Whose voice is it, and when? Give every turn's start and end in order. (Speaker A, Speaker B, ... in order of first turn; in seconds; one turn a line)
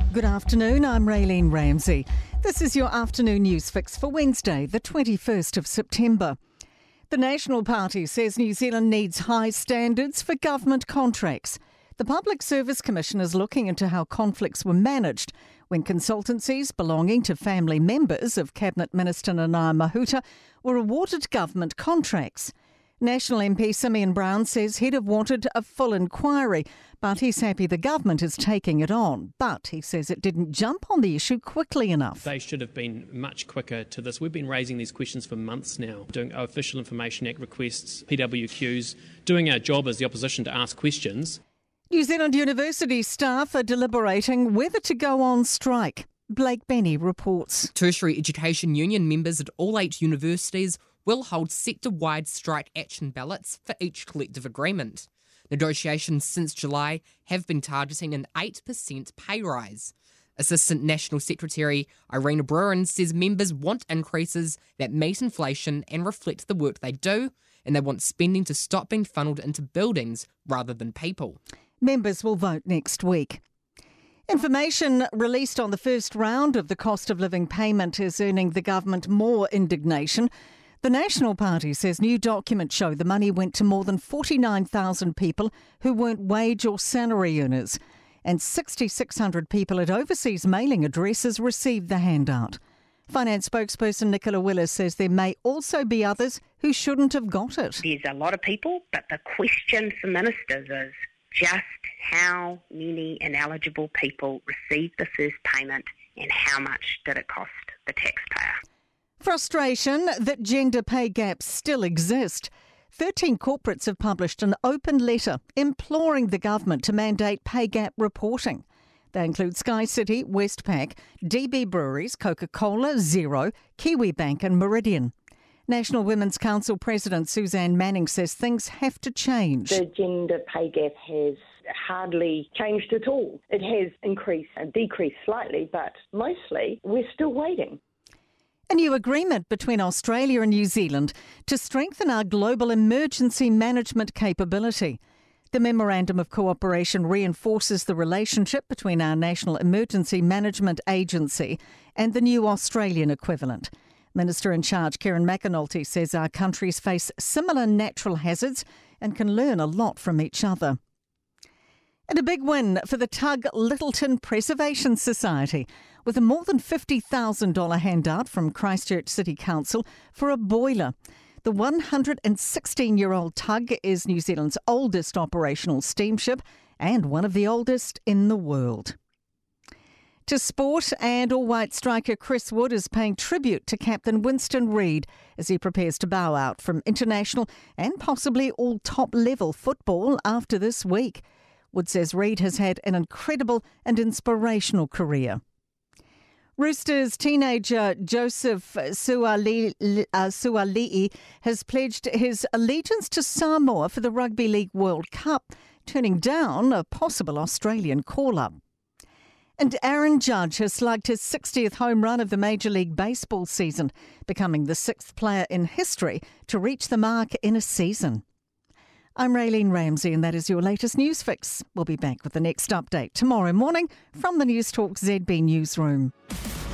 Speaker A: 0.1-6.4
Speaker A: 7.1-32.3
Speaker B: 32.2-41.4
Speaker A: 41.9-47.7
Speaker C: 47.8-71.4
Speaker A: 71.8-73.4
Speaker A: 74.3-80.3
Speaker A: 80.8-92.6
Speaker A: 93.1-97.8
Speaker D: 97.8-108.6
Speaker A: 109.2-125.1
Speaker A: 125.7-129.8
Speaker E: 129.7-137.8
Speaker A: 138.7-145.0
Speaker A: 145.5-160.8
Speaker A: 162.1-178.9
Speaker A: 180.2-195.4
Speaker A: 196.6-208.6
Speaker A: 209.6-218.2
Speaker A: 219.2-226.1